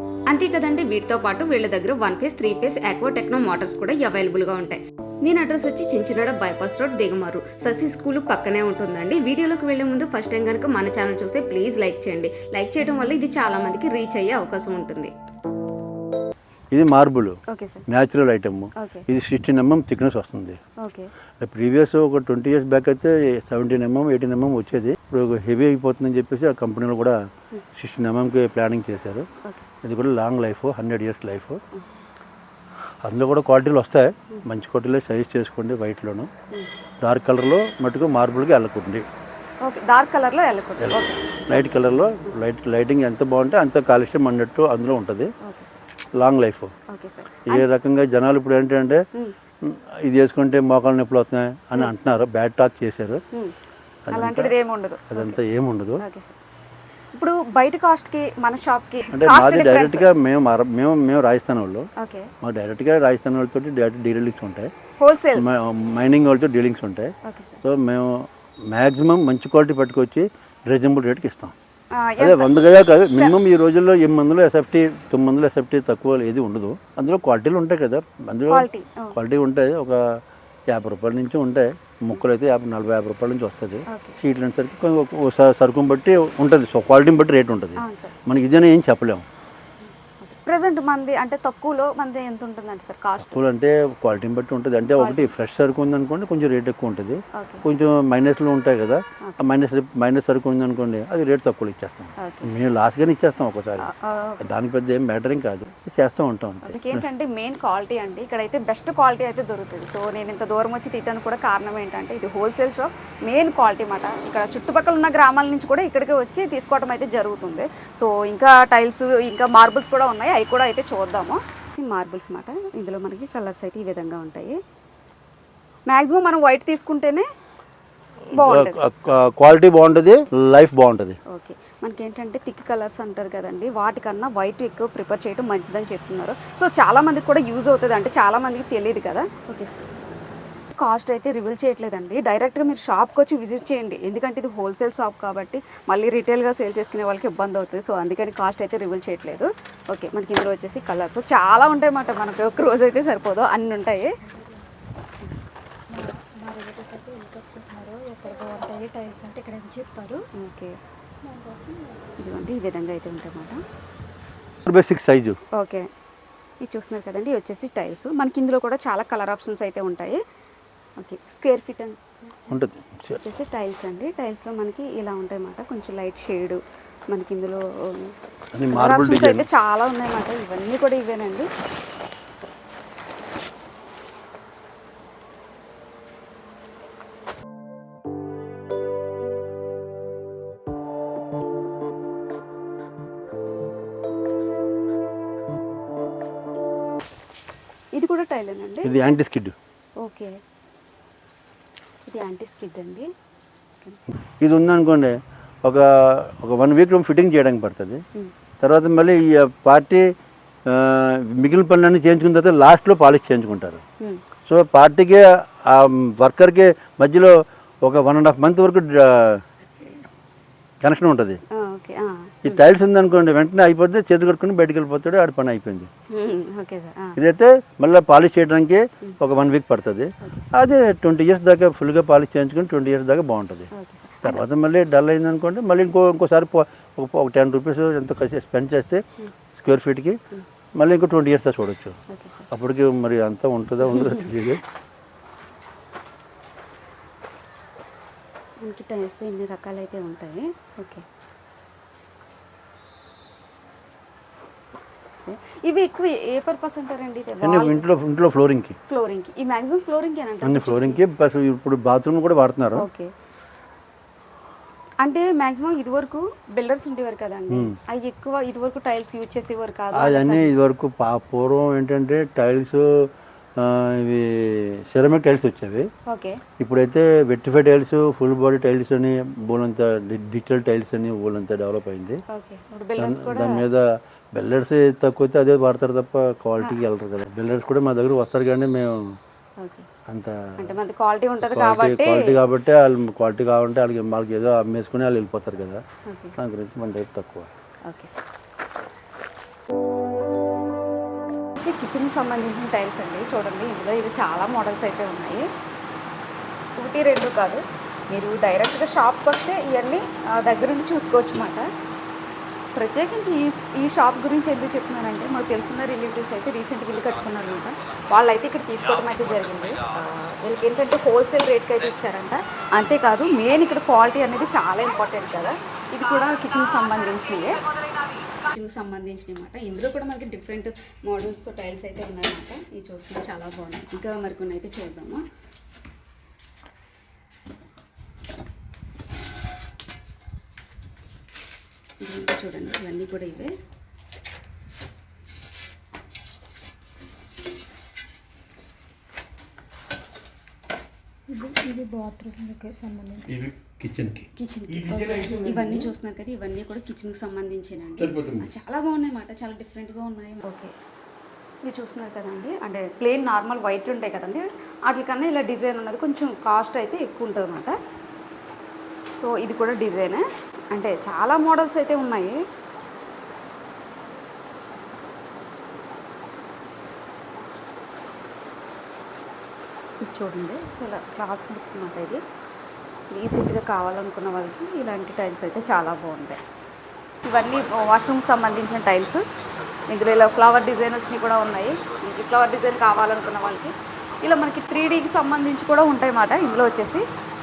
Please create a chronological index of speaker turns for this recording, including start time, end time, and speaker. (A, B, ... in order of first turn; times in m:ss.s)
0:00.3-0:15.1 A
0:16.7-0:20.6 B
0:17.5-0:17.8 A
0:18.8-0:19.1 A
0:20.8-0:21.1 A
0:21.4-0:27.2 B
0:27.8-0:29.3 B
0:29.4-0:29.7 A
0:29.8-0:31.6 B
0:33.0-0:36.3 B
0:37.0-0:39.1 B
0:39.6-0:41.6 A
0:40.8-0:45.3 B
0:45.4-0:45.8 A
0:46.2-0:46.7 B
0:46.9-0:47.7 A
0:47.5-0:49.0 B
0:49.6-0:53.2 B
0:54.1-0:54.5 B
0:54.1-0:55.4 A
0:55.1-0:56.0 B
0:56.0-0:56.4 A
0:57.1-1:00.1 A
0:59.1-1:01.9 B
1:02.0-1:02.3 A
1:02.4-1:04.7 B
1:05.0-1:05.4 A
1:05.4-1:11.5 B
1:07.2-1:07.6 A
1:12.0-1:12.6 A
1:12.2-1:29.2 B
1:13.1-1:13.4 A
1:18.5-1:19.2 A
1:23.9-1:24.2 A
1:27.8-1:28.2 A
1:29.8-1:33.4 A
1:33.2-1:43.9 B
1:35.0-1:35.3 A
1:37.4-1:37.7 A
1:42.2-1:42.5 A
1:43.8-1:44.5 A
1:44.4-1:47.0 B
1:46.6-2:04.6 A
2:05.9-2:07.3 A
2:08.3-2:11.2 B
2:08.3-2:08.8 A
2:11.3-2:19.8 A
2:20.7-2:34.1 A
2:35.9-2:40.3 C
2:40.4-2:40.8 A
2:41.2-2:42.4 C
2:42.2-2:43.6 A
2:44.6-2:45.4 B
2:45.5-2:45.9 A
2:46.6-2:50.2 A
2:51.0-2:52.4 A
2:52.5-2:53.2 B
2:53.2-2:58.1 A
2:58.5-2:59.5 B
2:58.7-3:01.5 A
3:17.9-3:19.0 A
3:18.8-3:19.6 B
3:20.0-3:20.4 A
3:22.1-3:23.1 A
3:24.4-3:28.0 B
3:28.6-3:30.0 B
3:30.7-3:33.8 B
3:34.5-3:40.0 B
3:40.8-3:41.4 B
3:41.6-3:42.6 A
3:42.4-3:45.9 B
3:46.1-3:47.2 A
3:47.2-3:53.7 B
3:50.2-3:50.5 A
3:53.7-3:54.4 A
3:54.2-4:00.2 B
4:00.8-4:02.0 B
4:02.1-4:02.5 A
4:02.5-4:04.6 B
4:03.8-4:04.3 A
4:08.6-4:11.0 A
4:15.2-4:17.8 A
4:17.4-4:18.8 B
4:18.9-4:21.0 A
4:20.4-4:22.9 B
4:22.8-4:23.1 A
4:25.0-4:30.5 A
4:29.9-4:35.9 B
4:36.1-4:36.4 A
4:36.6-4:42.2 B
4:42.3-4:43.6 A
4:43.0-4:49.2 B
4:49.6-4:49.9 A
4:50.1-4:50.8 B
4:50.6-4:52.4 A
4:51.4-4:55.8 B
4:56.1-4:56.4 A
4:56.4-4:57.5 B
4:57.8-4:58.2 A
5:01.6-5:05.5 A
5:06.8-5:11.7 A
5:12.8-5:27.7 A
5:28.2-5:35.2 A
5:42.0-5:43.5 A
5:51.3-5:53.4 C
5:53.3-5:55.8 B
5:54.4-6:00.7 A
5:58.0-5:58.5 B
6:01.6-6:07.8 A
6:09.2-6:12.4 A
6:20.0-6:22.2 A
6:23.1-6:26.4 A
6:27.2-6:29.2 A
6:29.9-6:37.0 A